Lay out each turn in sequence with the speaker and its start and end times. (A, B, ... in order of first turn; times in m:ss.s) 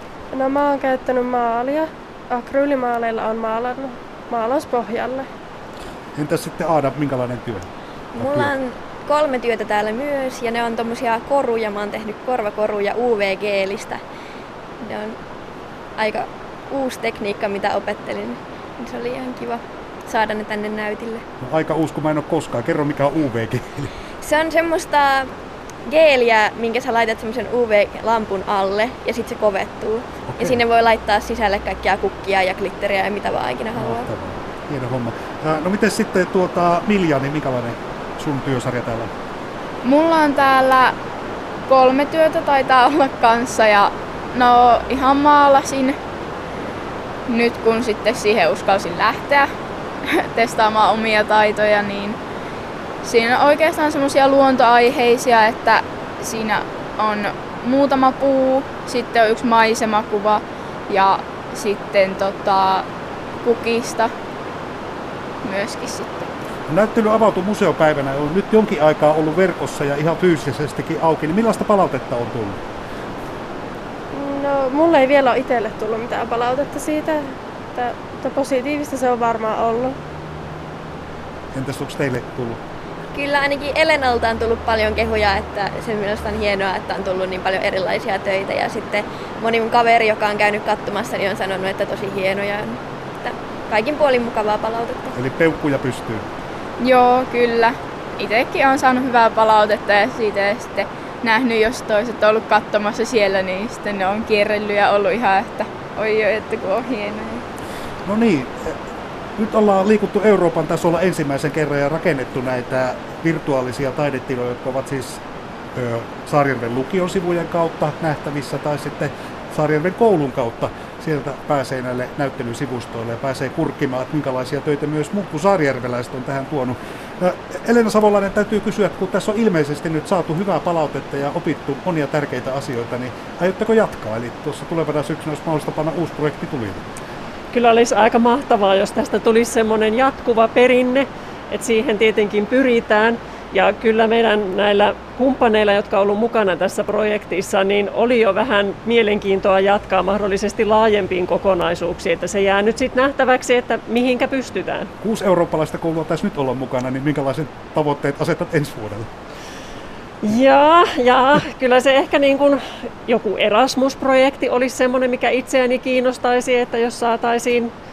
0:00.3-0:05.2 A
0:06.2-0:08.5 B
0:08.2-0:14.0 C
0:14.8-0:15.2 C
0:16.0-0:21.2 C
0:21.4-0:23.9 B
0:24.2-0:25.3 C
0:25.8-0:34.1 C
0:30.3-0:30.6 B
0:33.8-0:39.1 B
0:39.8-0:40.9 D
0:41.7-0:45.9 D
0:47.3-0:49.5 D
0:50.1-0:52.2 D
0:53.0-1:02.8 D
1:03.4-1:04.1 D
1:05.4-1:06.3 D
1:06.7-1:12.6 B
1:14.2-1:17.2 A
1:17.8-1:19.9 A
1:21.5-1:22.6 B
1:23.1-1:35.2 C
1:35.1-1:36.2 B
1:36.8-1:47.4 D
1:48.0-1:48.8 B
1:49.4-1:55.2 B
1:55.7-2:16.9 B
2:17.5-2:34.9 E
2:35.0-2:39.1 B
2:40.2-2:47.7 E